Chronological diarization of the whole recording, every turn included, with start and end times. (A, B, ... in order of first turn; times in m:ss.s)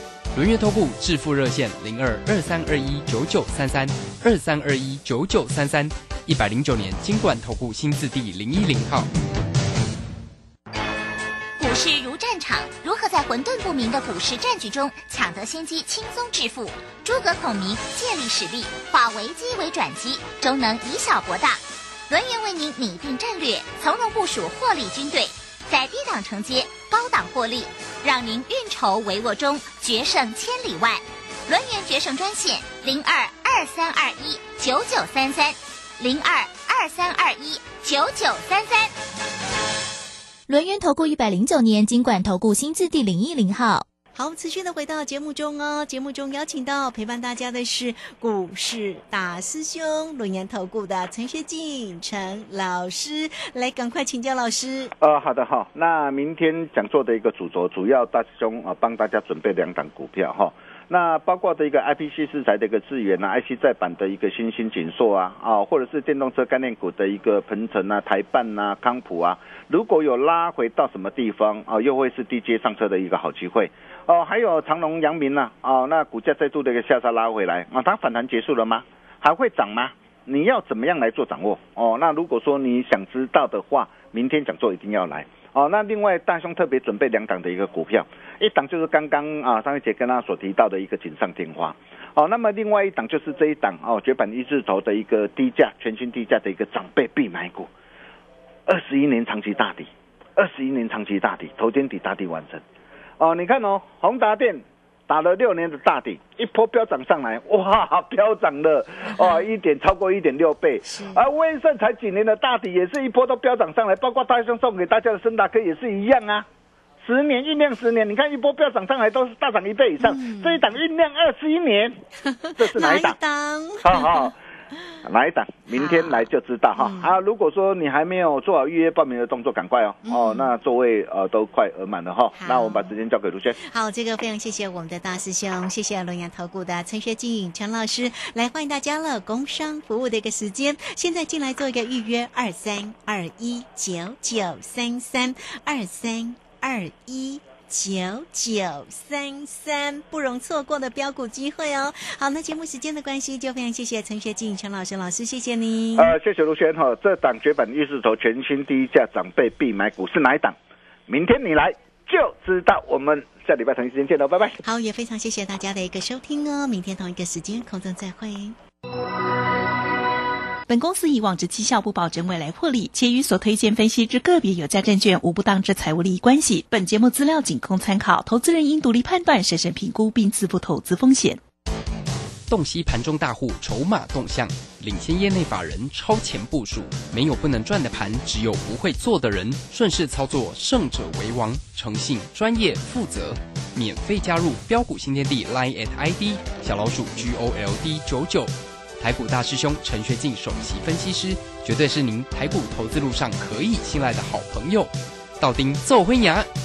0:00.3-0:09.1 A
0:11.6-0:38.9 B
0:40.5-0:43.8 C
0:44.1-0:54.9 D
0:55.0-1:37.7 E
1:38.6-1:42.6 E
1:43.2-1:56.5 E
1:49.1-1:49.4 D
1:50.9-1:51.2 D
1:57.0-2:02.0 E
2:00.0-2:00.7 D
2:02.3-2:04.3 D
2:02.6-2:03.2 E
2:03.8-2:04.4 E
2:05.0-2:13.6 E
2:05.7-2:07.1 D
2:10.0-2:10.5 D
2:12.4-2:12.9 D
2:13.6-2:36.1 D
2:35.9-2:40.6 E
2:41.1-2:44.6 E
2:44.6-2:48.6 D
2:50.7-3:01.4 F
3:02.5-3:26.5 A